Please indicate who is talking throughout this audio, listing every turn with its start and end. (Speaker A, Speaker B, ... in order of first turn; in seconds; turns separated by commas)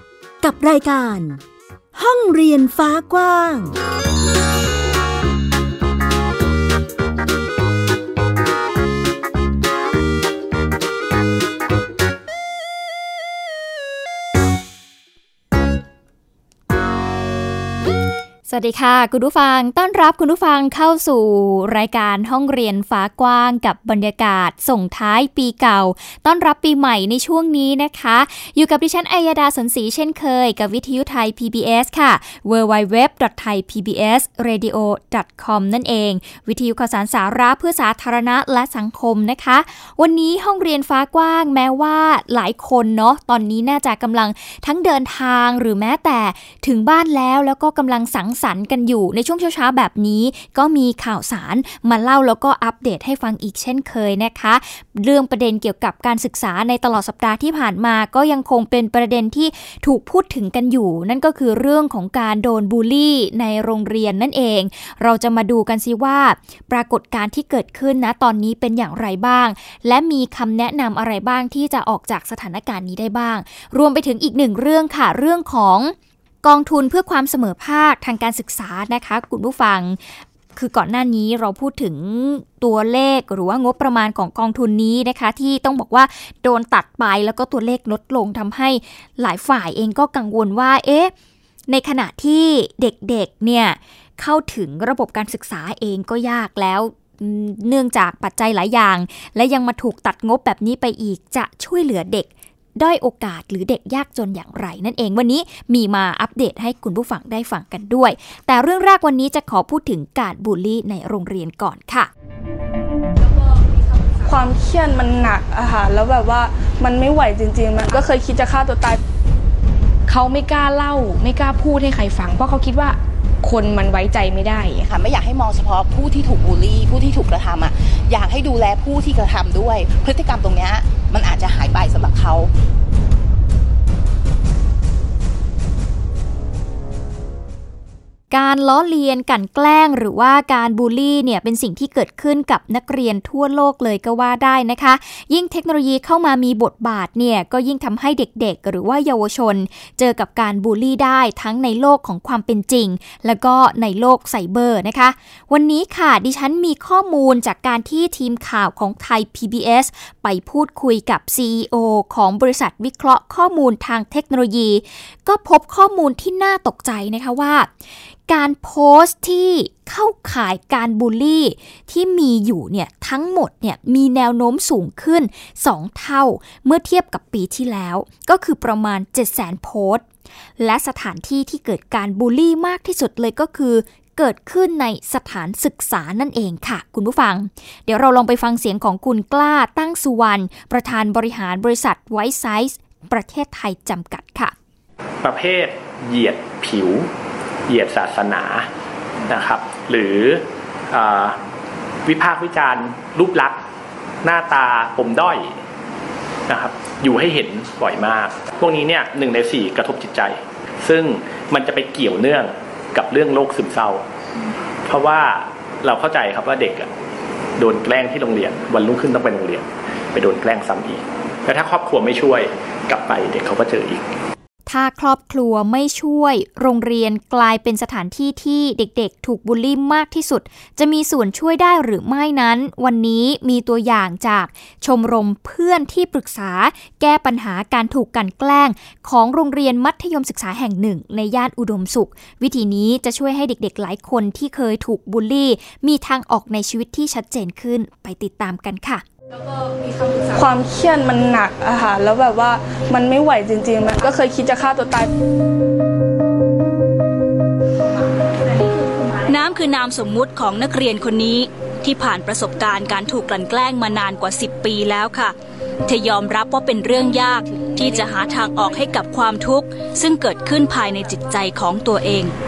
Speaker A: 0.4-1.4, Speaker A: 1.9-3.8, Speaker B: 18.5-91.1, Speaker B: 91.7-112.1, Speaker C: 114.2-119.0, Speaker D: 120.1-124.9, Speaker E: 124.8-132.5, Speaker B: 138.3-167.7, Speaker B: 168.3-180.0, Speaker B: 180.6-194.5, Speaker F: 195.2-197.1, Speaker F: 197.7-198.7, Speaker F: 199.3-201.4, Speaker F: 202.0-203.6, Speaker F: 204.2-205.6, Speaker F: 206.5-214.0, Speaker F: 214.8-216.9, Speaker F: 217.6-224.1, Speaker B: 224.7-249.0, Speaker C: 250.2-255.1, Speaker G: 259.2-272.3, Speaker D: 267.5-268.5